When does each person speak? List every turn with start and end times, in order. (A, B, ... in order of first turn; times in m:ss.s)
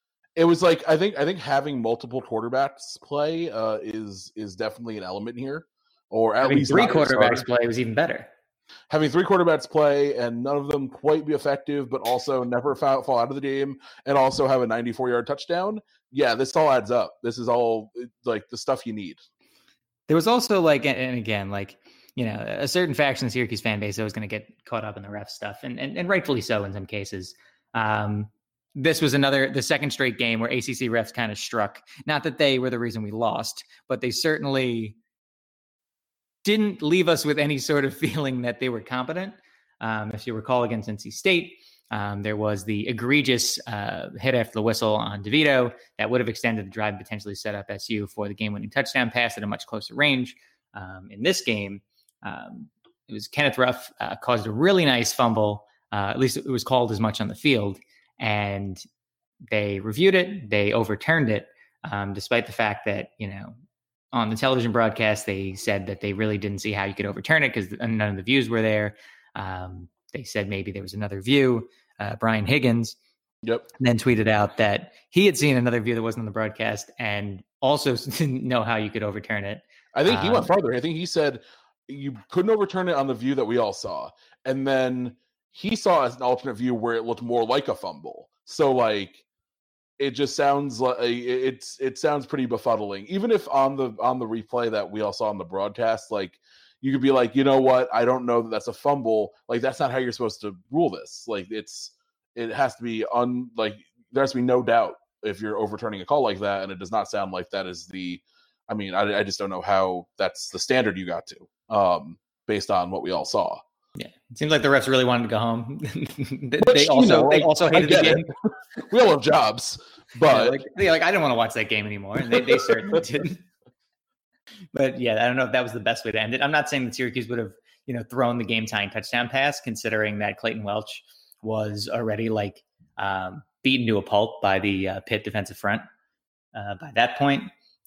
0:00.4-0:07.4 A
0:06.4-0:08.3 B
0:08.9-0:19.2 A
0:20.1-0:35.0 B
0:36.4-0:58.8 B
0:59.5-1:03.6 B
1:04.1-1:13.0 B
1:13.8-1:20.5 B
1:19.9-1:29.2 A
1:30.0-1:53.6 A
1:54.0-1:58.3 B
1:56.6-1:58.3 A
1:58.9-2:00.6 A
2:00.2-2:03.4 B
2:02.3-2:03.0 A
2:04.7-2:15.8 B
2:16.5-2:17.5 B